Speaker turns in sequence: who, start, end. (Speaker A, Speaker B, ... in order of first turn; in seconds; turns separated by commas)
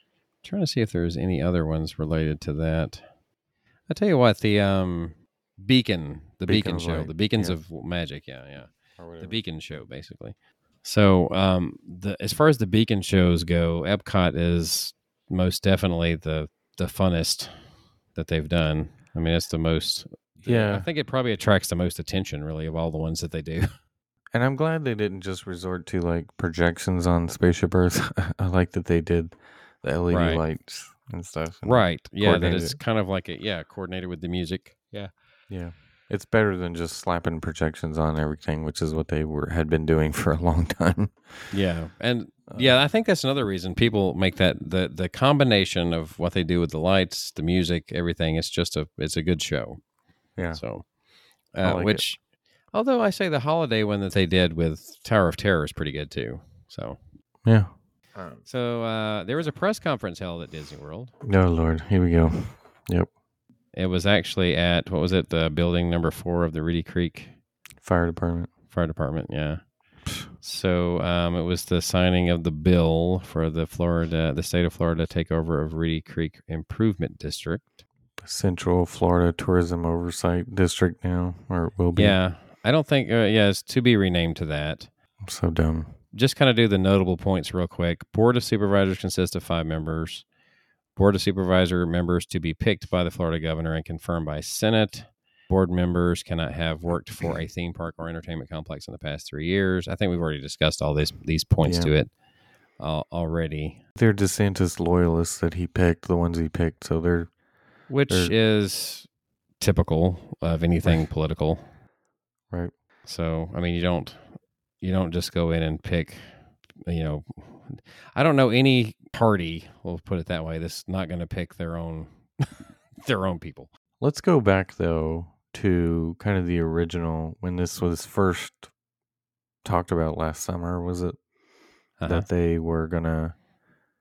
Speaker A: 0.4-3.0, Speaker A: 3.9-17.5, Speaker B: 6.5-7.6, Speaker B: 9.0-9.4, Speaker A: 18.1-23.7, Speaker B: 20.4-20.9, Speaker B: 24.3-32.8, Speaker A: 30.1-30.4, Speaker A: 31.6-34.8, Speaker B: 35.5-41.4, Speaker A: 41.5-49.8, Speaker B: 42.5-42.8, Speaker A: 50.5-50.8, Speaker A: 51.5-52.2, Speaker B: 51.6-52.0, Speaker A: 52.7-57.0, Speaker B: 57.4-58.4, Speaker A: 58.4-61.1, Speaker B: 61.2-63.1, Speaker A: 63.7-67.3, Speaker B: 67.8-68.5, Speaker A: 68.7-69.6, Speaker A: 70.4-77.8, Speaker B: 78.2-82.2, Speaker A: 81.9-84.9, Speaker B: 85.2-85.9, Speaker A: 86.1-90.2, Speaker A: 91.0-102.1, Speaker B: 101.6-101.9, Speaker A: 102.8-103.8, Speaker B: 104.0-107.3, Speaker A: 107.9-109.1, Speaker B: 108.1-108.3, Speaker A: 109.6-111.7, Speaker A: 113.0-114.2, Speaker A: 114.8-116.2, Speaker A: 116.8-123.7, Speaker B: 124.0-128.7, Speaker B: 129.6-131.2, Speaker A: 132.0-132.3, Speaker B: 132.0-133.3